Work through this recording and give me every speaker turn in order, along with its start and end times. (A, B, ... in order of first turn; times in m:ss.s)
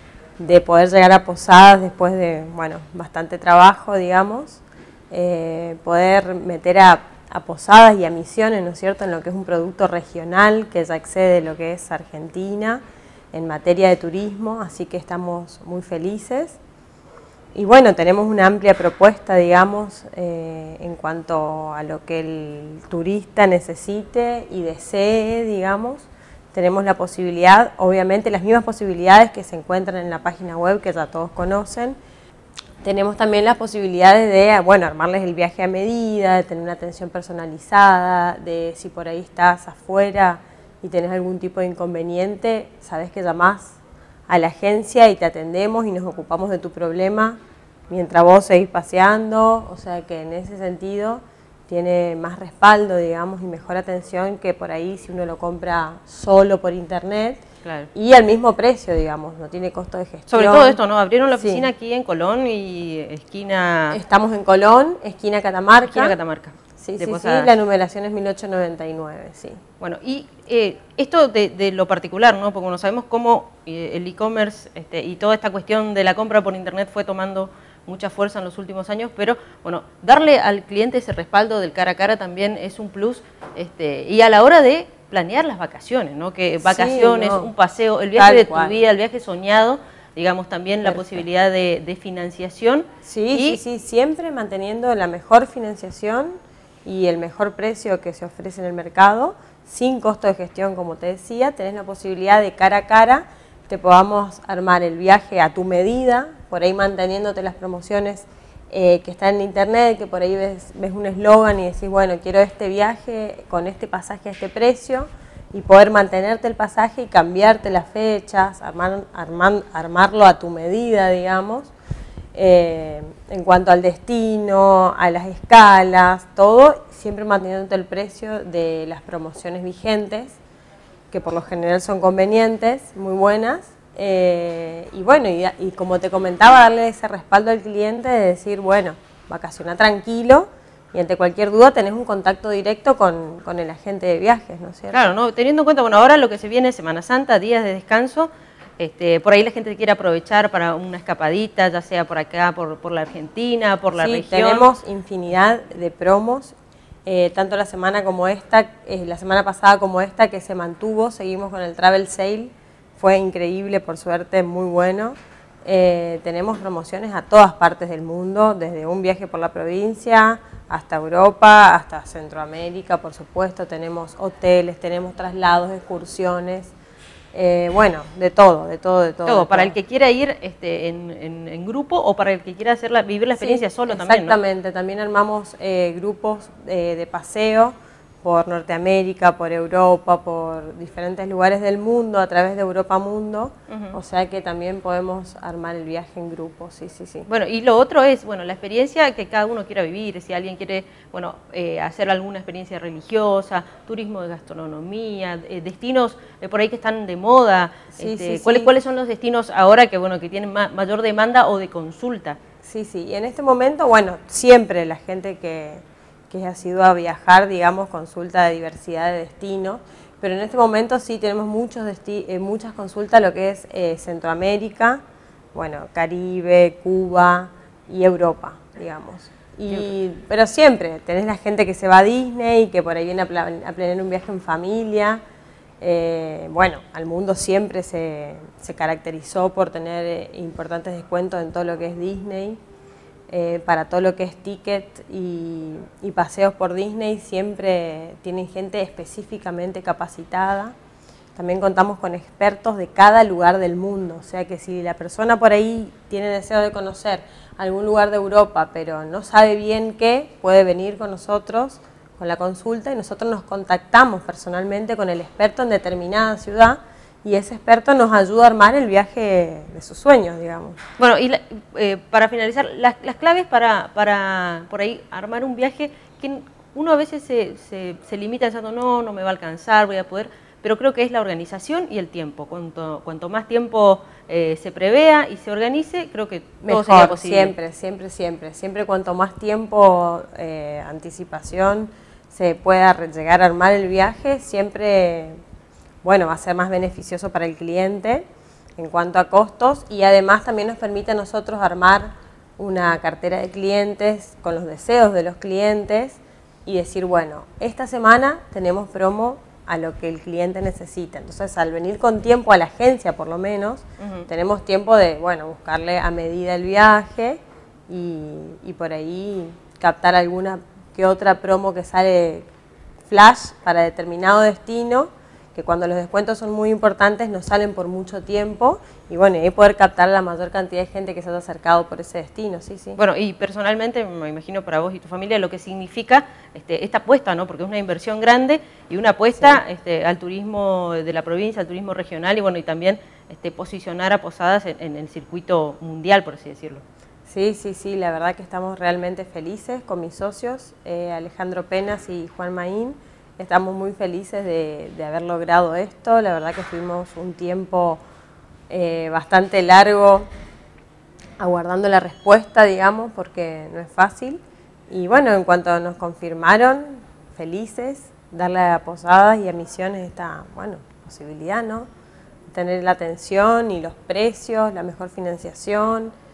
0:00.4-0:12.8 A
0:13.3-0:16.6 A
0:17.5-0:32.0 A
0:32.8-0:43.8 A
0:44.3-0:47.4 A
0:47.9-0:57.4 A
0:57.6-0:57.9 B
0:57.9-1:00.8 A
1:00.3-1:04.0 B
1:01.4-1:01.7 A
1:03.9-1:06.1 A
1:05.9-1:07.5 B
1:06.8-1:09.6 A
1:09.8-1:33.6 B
1:26.6-1:27.5 A
1:28.2-1:28.8 A
1:30.8-1:31.2 A
1:33.0-1:36.3 A
1:36.8-2:01.7 A
2:02.4-2:10.4 A
2:11.1-2:25.1 A
2:24.9-2:34.7 B
2:33.9-2:56.7 A
2:57.3-2:59.8 A
2:59.2-3:04.4 B
3:03.4-3:17.3 A
3:13.7-3:14.0 B
3:17.3-3:32.4 B
3:27.9-3:28.7 A
3:32.6-3:45.0 A
3:45.5-3:55.2 A
3:55.8-4:02.6 A
4:03.3-4:10.7 A
4:11.4-4:30.8 A
4:31.0-4:47.5 B
4:46.6-4:55.4 A
4:56.0-4:58.2 A
4:58.8-5:22.5 A
5:14.0-5:14.3 B
5:23.1-5:33.0 A
5:33.0-5:46.8 B
5:47.3-5:58.0 A
5:58.7-6:00.3 A
6:01.4-6:11.9 A
6:12.5-6:16.1 A